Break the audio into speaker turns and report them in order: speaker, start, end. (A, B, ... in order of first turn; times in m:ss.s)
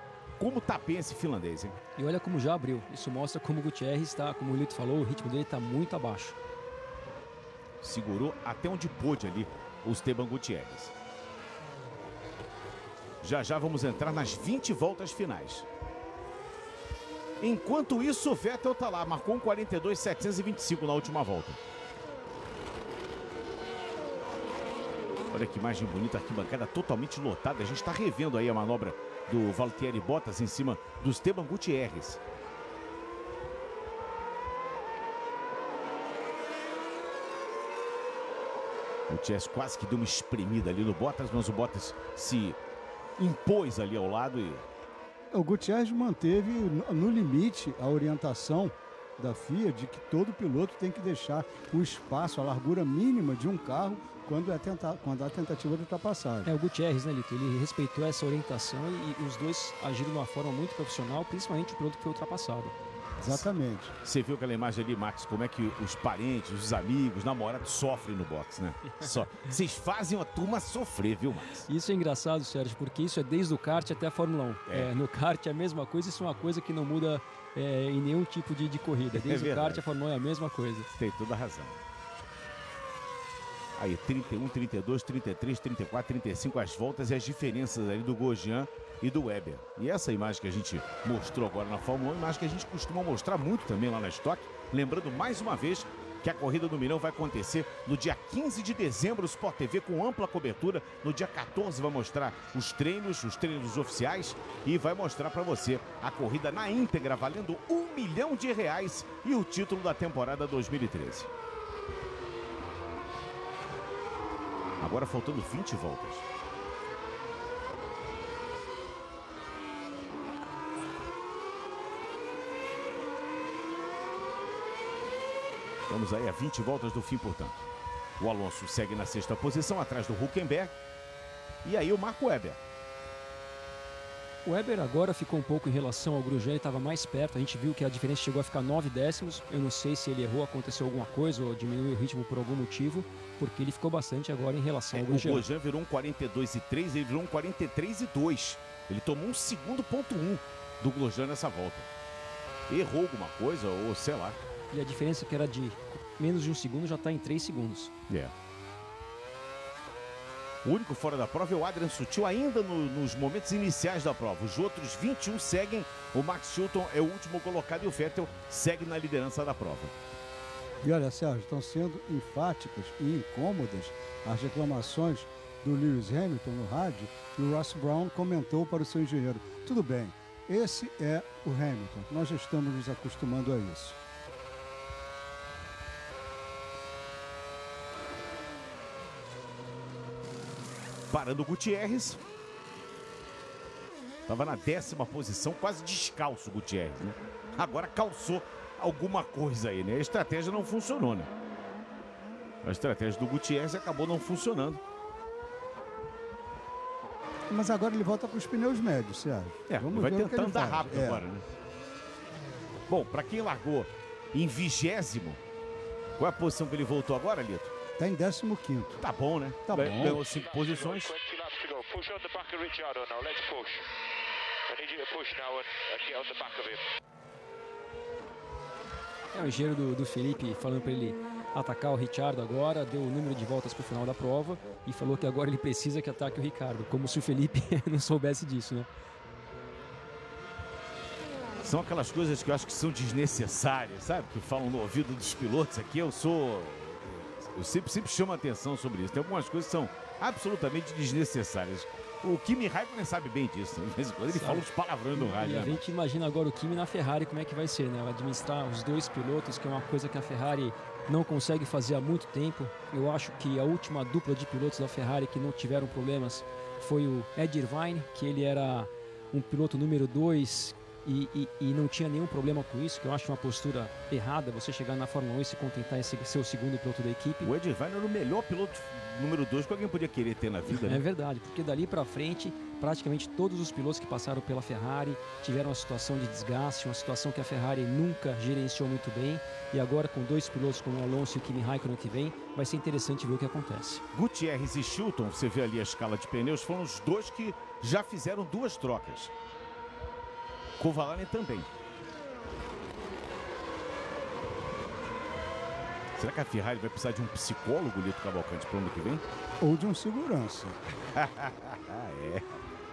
0:00.4-0:01.8 A
0:02.0-0:06.4 B
0:07.8-0:10.9 A
0:13.2-0:15.6 A
0:17.4-0:21.6 A
0:25.3-0:32.2 A
0:39.1-0:42.6 A
0:43.2-0:44.6 A
0:45.3-0:56.5 C
0:56.4-1:02.7 B
1:03.2-1:03.9 C
1:04.0-1:11.7 A
1:11.7-1:20.9 B
1:19.1-1:19.8 A
1:21.0-1:21.8 A
1:23.8-1:51.3 A
1:54.8-1:56.2 A
2:05.9-2:07.6 A
2:08.2-2:10.7 A
2:11.6-2:12.6 A
2:14.4-2:25.4 B
2:24.9-2:31.9 A
2:32.7-2:34.4 A
2:34.7-2:37.9 B
2:40.6-2:49.9 A
2:50.8-3:04.0 C
3:11.1-3:12.2 A
3:14.3-3:21.3 A
3:22.6-3:24.8 A
3:27.5-3:31.2 C
3:29.7-3:31.4 A
3:32.9-3:35.4 A
3:36.2-3:37.7 A
3:38.0-3:39.0 C
3:39.0-3:41.1 A
3:39.6-3:40.2 C
3:40.0-3:43.9 D
3:44.7-3:46.8 D
3:49.3-3:58.9 B
4:01.6-4:15.8 A
4:14.3-4:37.5 B
4:37.4-4:41.0 A
4:40.7-4:54.0 B
4:54.1-4:59.3 A
5:00.8-5:01.7 A
5:06.2-5:09.2 A
5:09.6-5:10.8 C
5:11.1-5:12.5 A